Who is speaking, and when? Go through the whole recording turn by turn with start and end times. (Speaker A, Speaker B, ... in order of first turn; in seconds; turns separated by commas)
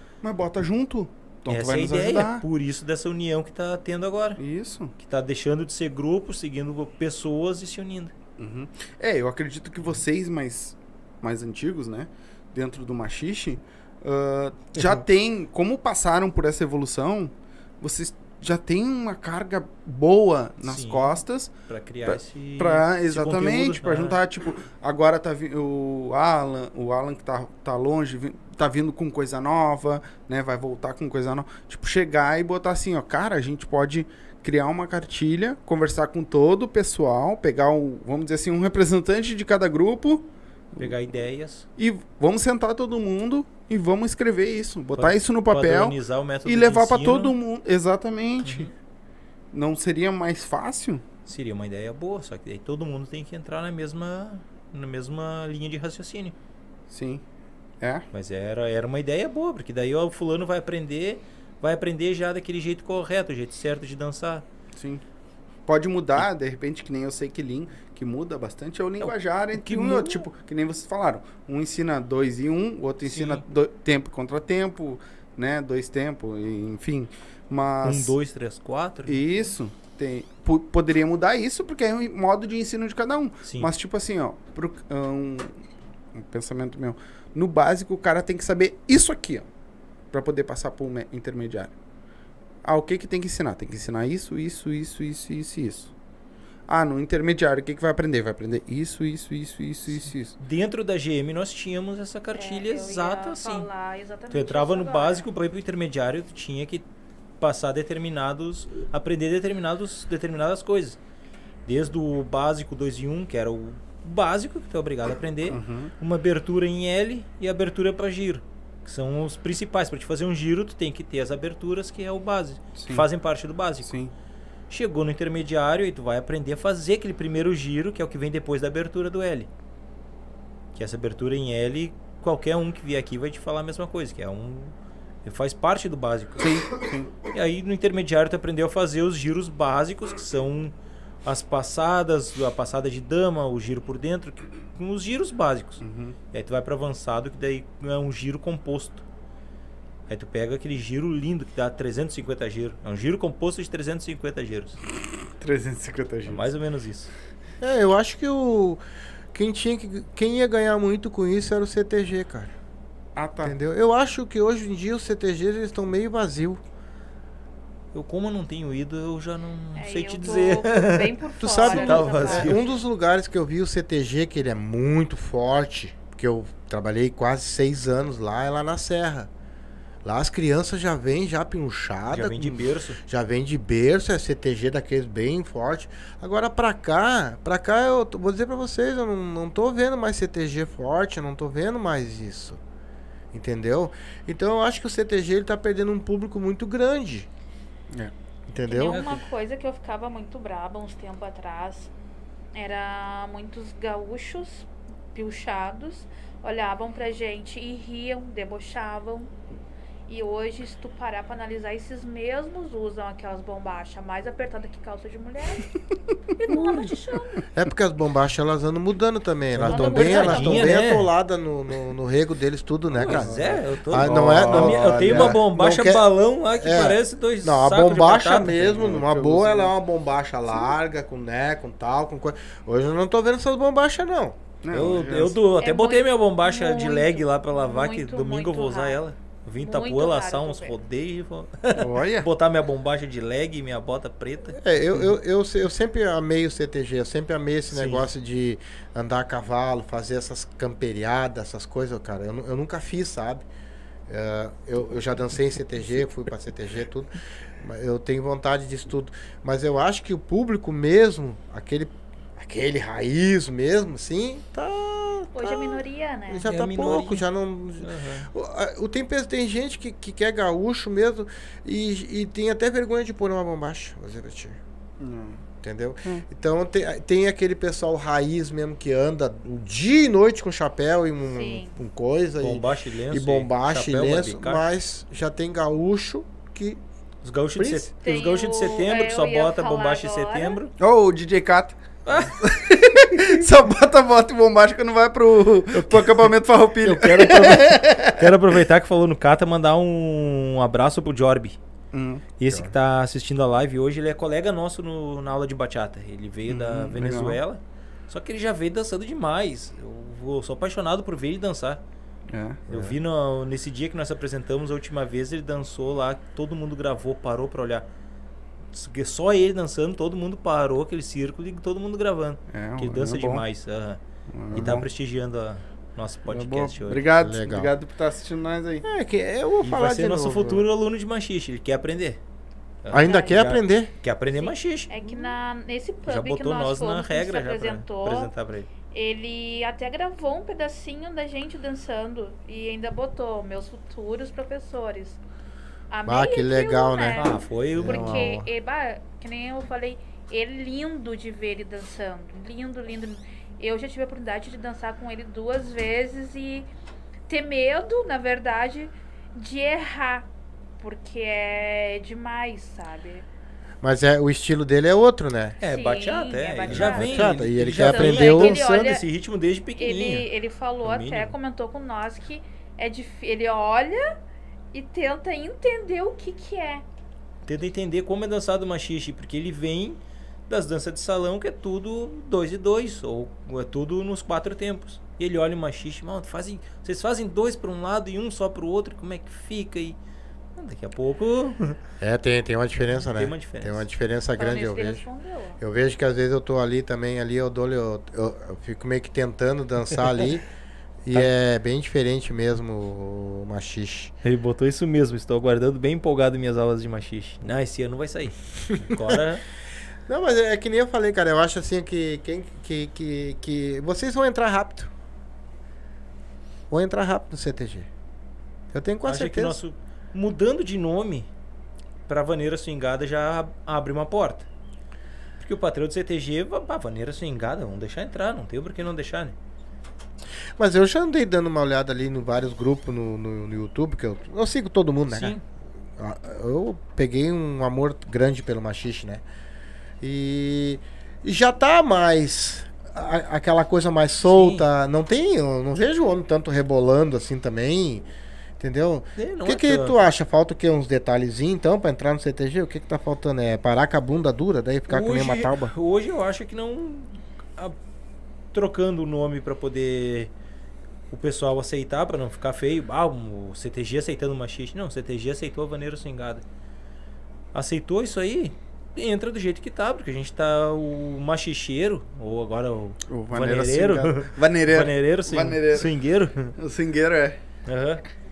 Speaker A: 0.2-2.4, Speaker B: 1.5-4.4, Speaker A: 4.4-4.9, Speaker B: 5.0-8.1, Speaker A: 8.4-21.5, Speaker B: 20.6-24.2, Speaker A: 22.0-40.9, Speaker B: 40.8-41.6, Speaker A: 41.8-48.7, Speaker B: 44.9-47.4, Speaker B: 48.4-48.7, Speaker A: 49.5-51.0, Speaker B: 51.2-56.3, Speaker A: 56.9-57.2, Speaker B: 58.1-64.4, Speaker A: 64.8-65.0, Speaker A: 65.7-78.1, Speaker B: 69.0-70.3, Speaker B: 73.0-73.4, Speaker B: 77.8-79.5, Speaker A: 79.1-85.6, Speaker B: 83.4-83.7, Speaker A: 86.1-89.5, Speaker A: 90.1-91.7, Speaker A: 92.6-95.9, Speaker A: 96.7-100.3, Speaker B: 100.4-103.7, Speaker C: 102.3-105.2, Speaker B: 104.3-106.8, Speaker B: 107.4-111.0, Speaker B: 111.7-123.9, Speaker A: 115.5-115.9, Speaker A: 122.7-123.1, Speaker A: 123.8-124.1, Speaker B: 124.7-129.5, Speaker B: 130.7-134.7, Speaker B: 135.2-136.7, Speaker A: 136.4-137.1, Speaker B: 137.2-140.7, Speaker B: 141.2-149.0, Speaker A: 145.8-146.2, Speaker B: 150.1-154.8, Speaker A: 155.4-156.4, Speaker B: 156.3-157.1, Speaker D: 157.6-158.8, Speaker D: 159.3-162.5, Speaker A: 163.2-163.6, Speaker D: 163.4-166.6, Speaker B: 167.9-172.6, Speaker C: 169.8-172.6, Speaker D: 171.4-179.3, Speaker D: 180.0-192.6, Speaker B: 182.1-183.0, Speaker D: 193.3-197.3, Speaker D: 198.5-199.1, Speaker C: 198.7-201.9, Speaker B: 198.8-199.2, Speaker C: 202.5-209.3, Speaker C: 210.1-215.8, Speaker C: 216.4-217.5, Speaker D: 217.5-226.0, Speaker B: 219.6-221.1, Speaker C: 219.6-220.7, Speaker A: 222.9-223.4, Speaker B: 223.0-229.0, Speaker A: 224.0-225.4, Speaker D: 226.5-234.4, Speaker A: 228.6-229.7, Speaker A: 234.6-235.3, Speaker B: 234.7-244.6, Speaker C: 235.6-239.0, Speaker C: 239.6-240.7, Speaker A: 241.8-242.3, Speaker D: 244.6-253.4, Speaker B: 247.7-248.1, Speaker D: 254.1-274.6, Speaker C: 265.3-266.5, Speaker B: 266.4-267.2, Speaker B: 267.8-268.3, Speaker A: 275.0-275.4, Speaker D: 275.6-286.8, Speaker C: 281.3-281.7, Speaker B: 282.4-284.6, Speaker B: 287.2-290.7, Speaker D: 287.6-287.9, Speaker C: 288.0-290.6, Speaker A: 290.8-298.2, Speaker B: 292.0-292.4, Speaker B: 295.7-296.1, Speaker B: 296.8-301.6, Speaker A: 301.9-302.2, Speaker B: 302.4-311.8, Speaker A: 306.5-307.4, Speaker A: 312.3-312.6, Speaker D: 312.7-312.9, Speaker B: 312.7-317.9, Speaker B: 318.7-324.0, Speaker A: 322.5-323.4, Speaker A: 324.3-324.9, Speaker B: 324.5-327.0, Speaker A: 326.3-328.8, Speaker D: 327.2-327.7, Speaker D: 328.8-330.7, Speaker B: 329.6-332.2, Speaker B: 332.8-335.4, Speaker D: 332.9-333.9, Speaker C: 332.9-333.4, Speaker C: 334.4-338.3, Speaker B: 336.1-338.7, Speaker C: 338.9-345.2, Speaker C: 345.9-356.7, Speaker D: 346.0-348.5, Speaker B: 347.1-348.4, Speaker C: 357.3-360.3, Speaker C: 360.8-363.2, Speaker D: 363.8-365.6, Speaker B: 365.6-370.3, Speaker C: 365.6-369.0, Speaker A: 366.7-367.8, Speaker D: 366.7-368.6, Speaker C: 369.8-374.2, Speaker B: 370.8-371.4, Speaker C: 374.7-376.8, Speaker B: 377.4-380.0, Speaker B: 380.5-390.0, Speaker B: 390.6-391.8, Speaker D: 392.0-395.1, Speaker B: 393.1-393.8, Speaker C: 394.4-395.6, Speaker D: 395.6-400.4, Speaker D: 401.0-404.1, Speaker B: 404.2-409.4, Speaker D: 408.9-409.2, Speaker D: 410.1-414.9, Speaker D: 416.7-417.9, Speaker D: 418.7-419.6, Speaker B: 419.0-421.3, Speaker B: 422.1-424.5, Speaker B: 425.4-429.4, Speaker D: 430.6-435.4, Speaker B: 435.1-435.4, Speaker D: 436.0-439.2, Speaker D: 440.0-448.1, Speaker B: 444.2-444.6, Speaker D: 448.6-455.7, Speaker B: 449.2-450.0, Speaker B: 454.9-457.7, Speaker B: 458.5-460.3, Speaker B: 461.1-466.4, Speaker B: 467.5-476.5, Speaker A: 473.1-475.9, Speaker A: 476.5-477.4, Speaker B: 477.6-478.0